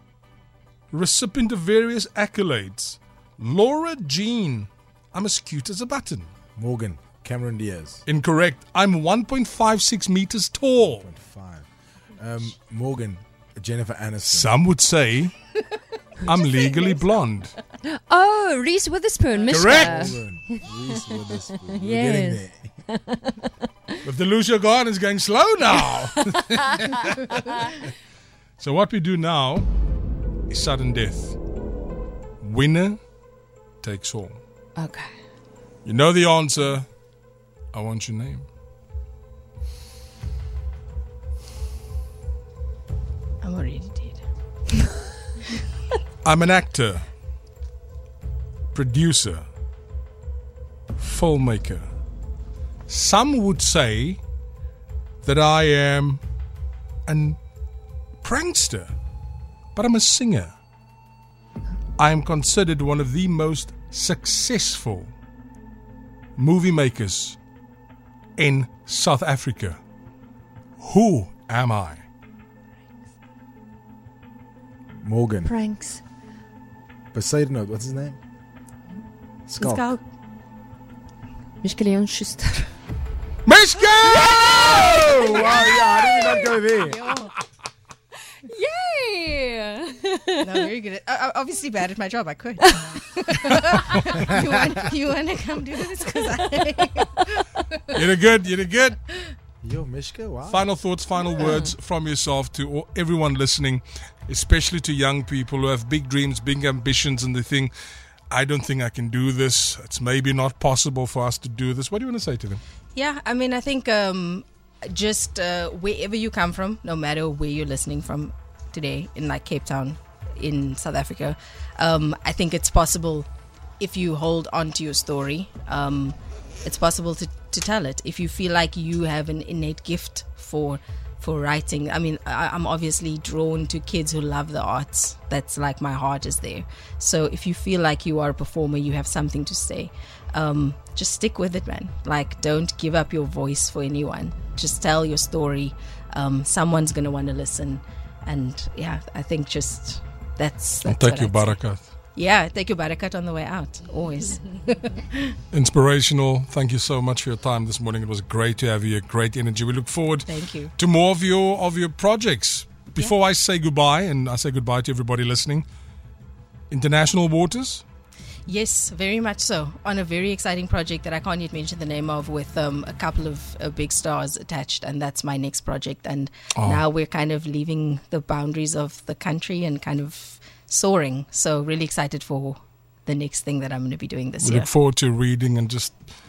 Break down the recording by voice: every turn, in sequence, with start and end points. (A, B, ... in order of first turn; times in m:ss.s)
0:00.9-0:06.3 A
0:06.6-0:08.0 B
0:08.0-0:11.1 A
0:10.8-0:14.6 B
0:14.2-0:15.3 A
0:16.2-0:17.5 A
0:16.3-0:17.0 C
0:17.8-0:21.2 D
0:19.5-0:20.2 A
0:19.6-0:22.8 B
0:21.7-0:23.5 D
0:24.0-0:27.6 A
0:26.3-0:26.8 D
0:28.6-0:29.7 A
0:30.5-0:31.4 A
0:32.4-0:33.0 A
0:33.8-0:34.4 A
0:34.8-0:35.1 D
0:35.8-0:36.9 A
0:37.7-0:38.5 A
0:43.4-0:44.2 C
0:46.2-0:47.0 A
0:48.7-0:49.4 A
0:51.0-0:51.9 A
0:52.9-0:54.2 A
0:55.2-0:56.2 A
0:57.1-0:57.4 A
0:58.2-0:58.9 A
0:59.7-1:00.5 A
1:02.0-1:05.1 A
1:06.4-1:07.4 A
1:08.4-1:09.8 A
1:10.8-1:12.0 A
1:15.0-1:15.6 B
1:15.4-1:16.0 D
1:17.1-1:18.2 B
1:19.5-1:19.9 B
1:19.6-1:20.0 C
1:21.6-1:22.7 D
1:23.4-1:25.2 A
1:24.4-1:27.1 B
1:25.0-1:27.3 C
1:28.4-1:30.6 D
1:30.4-1:37.8 C
1:37.9-1:39.0 A
1:39.6-1:40.7 B
1:40.5-1:47.7 A
1:48.3-1:52.6 A
1:52.9-2:03.3 C
2:03.8-2:31.6 C
2:30.8-2:31.8 A
2:32.1-2:35.4 C
2:35.5-2:45.6 A
2:40.3-2:40.7 C
2:46.7-2:47.8 A
2:48.4-3:04.7 C
2:56.5-2:56.8 A
3:04.4-3:05.9 A